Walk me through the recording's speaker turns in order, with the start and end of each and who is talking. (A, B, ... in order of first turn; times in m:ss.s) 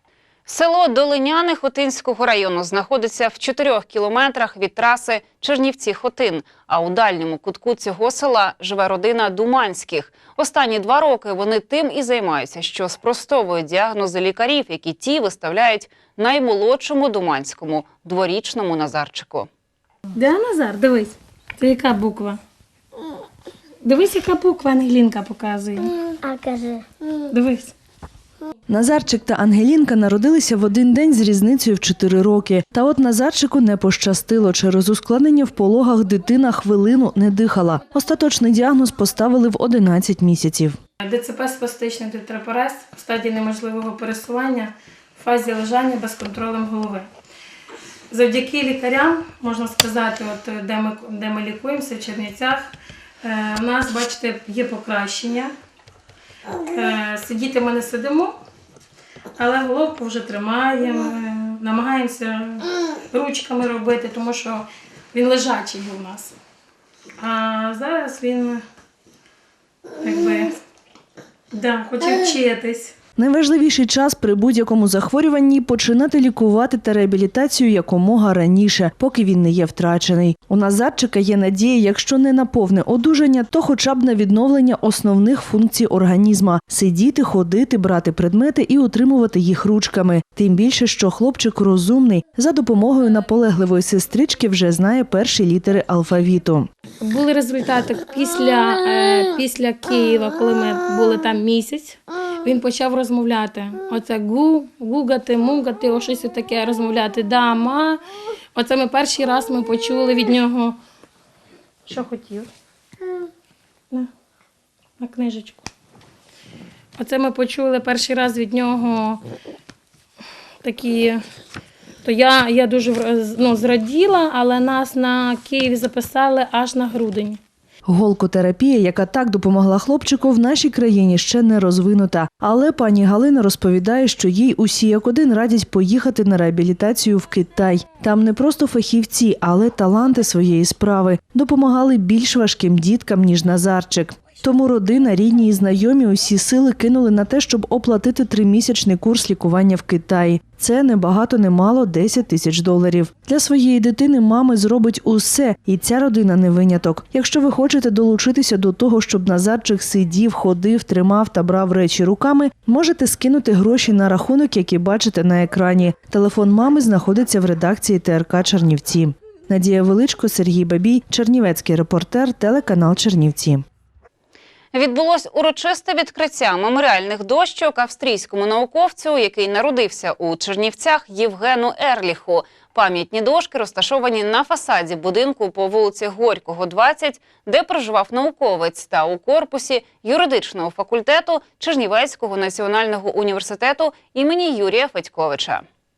0:00.5-0:19.5 A
0:20.2-0:22.4 B
0:23.8-0:25.9 B
0:27.3-0:27.7 B
0:28.7-0:40.8 C
0:41.0-0:47.1 B
0:48.1-0:52.7 B
0:53.2-0:55.5 B
0:56.7-0:58.4 B
0:59.4-1:06.3 B
1:07.2-1:08.6 B
1:10.0-1:10.5 B
1:11.5-1:12.9 B
1:13.2-1:36.7 C
1:37.1-1:48.0 B
1:48.6-1:50.8 B
1:51.9-1:52.5 B
1:55.0-1:55.7 B
1:57.0-1:59.2 B
2:00.6-2:01.2 B
2:02.0-2:07.4 B
2:07.9-2:53.6 C
2:54.7-3:15.6 A